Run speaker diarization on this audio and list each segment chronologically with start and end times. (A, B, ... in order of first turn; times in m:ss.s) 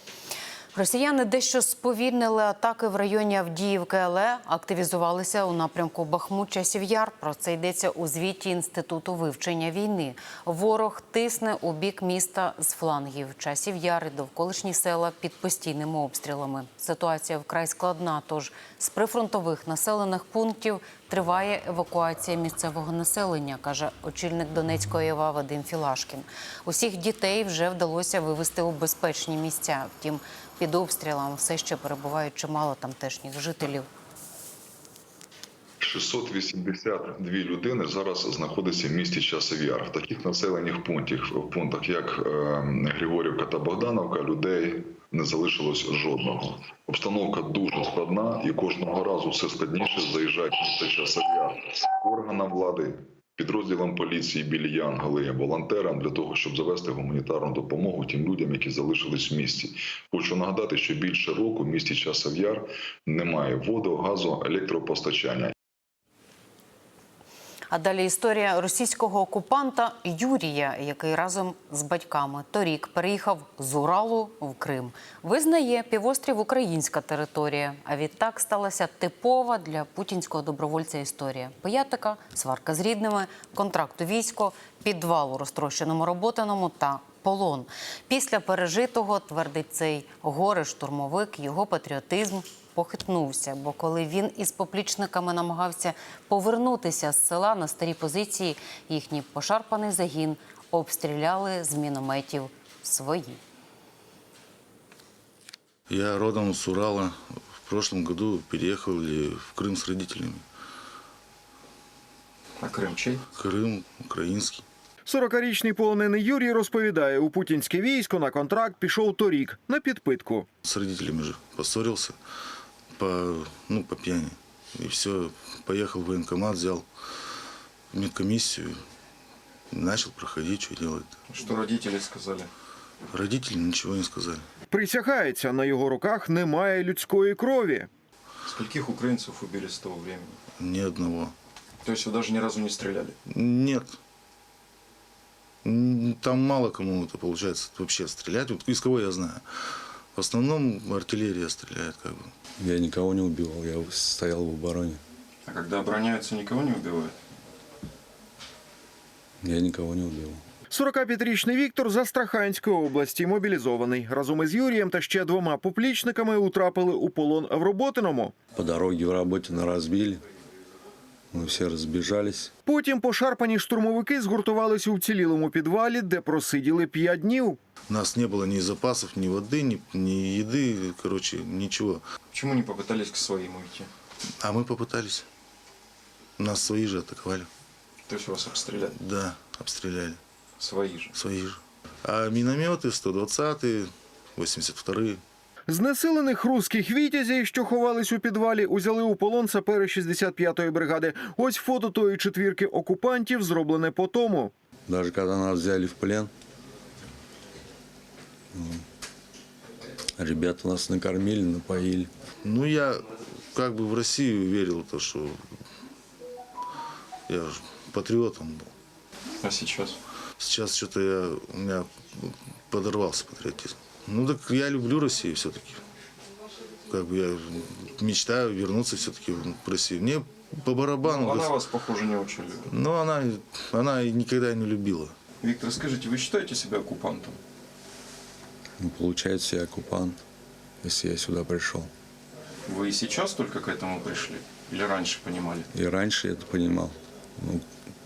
0:00.7-0:33.9 A
0:35.8-1:05.5 B
1:07.7-1:43.4 A
1:45.9-1:50.4 C
1:52.6-1:53.2 D
1:53.3-1:54.6 C
1:55.0-2:00.4 E
2:00.6-2:02.2 C
2:03.0-2:06.8 C
2:07.9-2:08.8 C
2:09.7-2:11.1 C
2:11.3-2:12.5 D
2:13.1-2:14.4 C
2:14.7-2:17.9 E
2:18.4-2:20.4 D
2:20.6-2:21.3 C
2:21.8-2:23.1 D
2:23.3-2:24.0 C
2:25.6-2:29.4 C
2:30.1-2:32.3 C
2:32.6-2:35.0 F
2:35.4-2:37.1 D
2:39.4-2:40.4 F
2:40.7-2:48.3 E
2:48.6-2:50.2 F
2:51.3-2:52.5 F
2:52.6-2:57.6 E
2:57.9-3:02.0 C
3:02.3-3:03.9 D
3:04.4-3:05.2 C
3:06.4-3:07.5 C
3:08.1-3:09.0 D
3:08.9-3:10.2 C
3:10.6-3:11.1 D
3:11.1-3:15.2 C
3:15.7-3:24.5 E
3:24.9-3:26.3 F
3:28.5-3:28.8 F
3:30.2-3:32.1 F
3:32.4-3:35.4 C
3:37.3-3:38.7 C
3:39.4-3:40.0 D
3:40.4-3:45.8 C
3:46.9-3:51.6 C
3:51.0-3:52.7 D
3:52.7-3:55.1 C
3:55.4-3:57.4 D
3:58.8-4:00.2 F
4:00.8-4:01.9 F
4:02.7-4:05.7 D
4:05.7-4:07.6 F